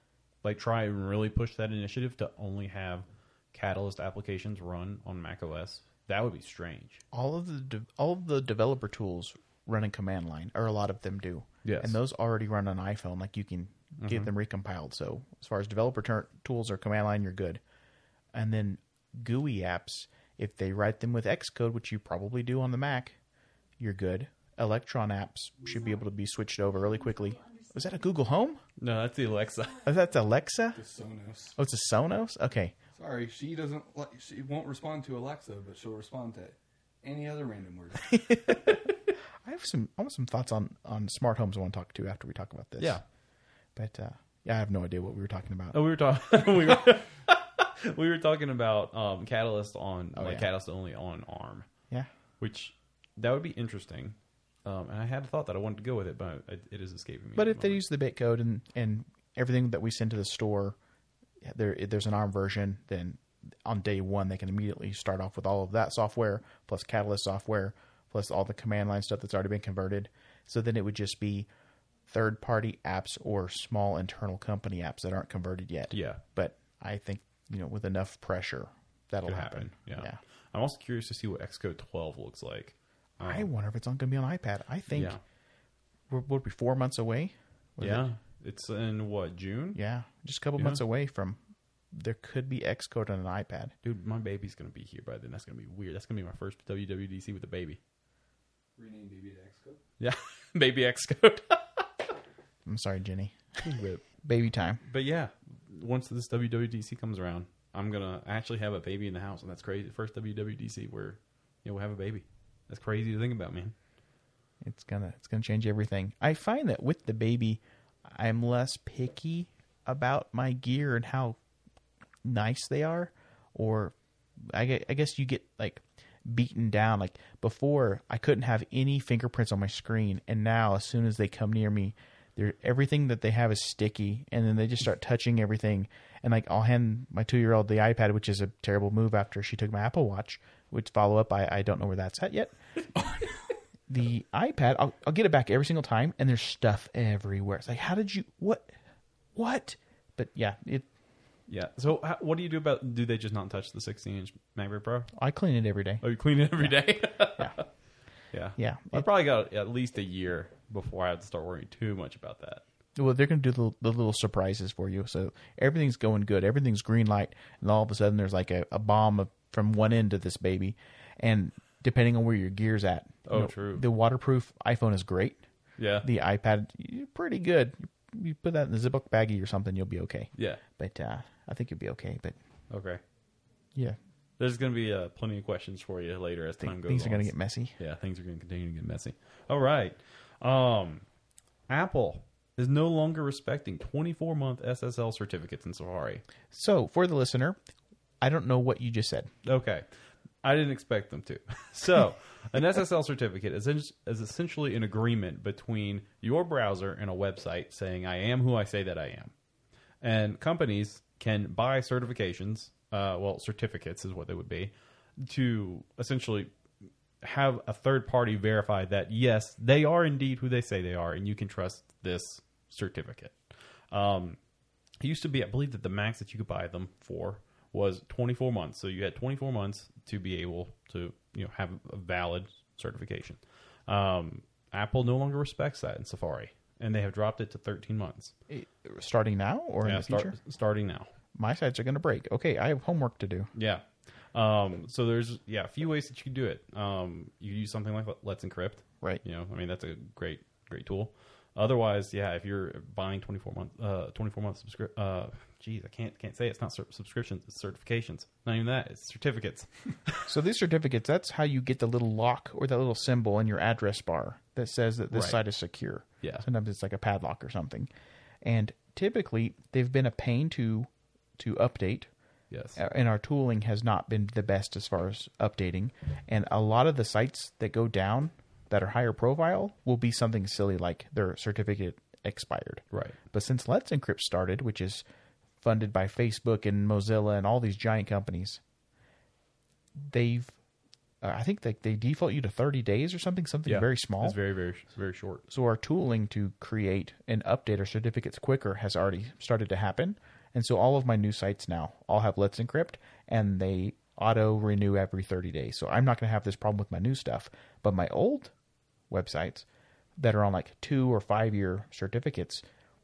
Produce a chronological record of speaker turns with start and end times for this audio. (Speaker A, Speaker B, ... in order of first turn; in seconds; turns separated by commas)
Speaker A: 0.4-7.0, Speaker B: 7.1-17.6, Speaker A: 11.6-12.0, Speaker A: 14.0-14.3, Speaker B: 18.3-23.2, Speaker B: 23.8-28.6, Speaker A: 28.8-29.8, Speaker B: 29.8-30.8, Speaker C: 30.8-31.6, Speaker B: 31.6-32.8, Speaker C: 33.0-38.2, Speaker B: 38.1-38.8, Speaker B: 39.4-43.0, Speaker B: 43.8-45.8, Speaker A: 45.7-51.7, Speaker B: 50.1-50.5, Speaker A: 52.4-57.8, Speaker B: 57.4-60.8, Speaker B: 61.4-71.5, Speaker B: 72.1-80.2, Speaker A: 75.9-76.2, Speaker A: 79.3-83.5, Speaker B: 83.2-85.2, Speaker A: 84.9-85.2, Speaker B: 86.1-88.0, Speaker A: 87.8-89.8, Speaker B: 89.8-91.4, Speaker B: 91.9-93.7, Speaker A: 93.8-97.8, Speaker C: 98.8-99.8, Speaker A: 100.0-101.9, Speaker B: 102.7-103.4, Speaker A: 103.6-104.0, Speaker B: 104.2-104.8, Speaker A: 104.8-113.8, Speaker B: 114.6-121.4, Speaker B: 122.2-142.6, Speaker B: 143.9-148.7, Speaker B: 149.3-150.9, Speaker A: 151.5-155.1, Speaker B: 155.1-156.0, Speaker A: 156.0-157.7, Speaker B: 156.6-157.6, Speaker A: 158.3-162.6, Speaker B: 158.6-159.1, Speaker B: 163.0-175.4, Speaker A: 173.3-173.8, Speaker A: 175.8-176.1, Speaker B: 176.0-182.4, Speaker A: 180.3-180.6, Speaker A: 182.7-183.0, Speaker A: 184.4-191.1, Speaker B: 186.6-187.8, Speaker A: 191.7-196.2, Speaker B: 196.5-197.6, Speaker B: 198.2-199.3, Speaker A: 199.4-199.9, Speaker A: 200.4-209.3, Speaker A: 210.0-216.5, Speaker A: 217.2-223.4, Speaker A: 223.9-224.4, Speaker A: 225.0-238.3, Speaker B: 238.5-240.4, Speaker A: 239.8-241.1, Speaker B: 241.3-243.5, Speaker A: 243.5-260.3, Speaker B: 260.3-267.9, Speaker A: 265.1-265.4, Speaker B: 268.4-272.1, Speaker A: 272.5-272.8, Speaker B: 272.8-285.0, Speaker A: 282.9-283.2, Speaker B: 285.6-288.6, Speaker B: 290.0-290.5, Speaker B: 291.2-294.4, Speaker A: 293.7-295.4, Speaker B: 295.5-308.5, Speaker B: 309.1-309.7, Speaker B: 310.2-312.6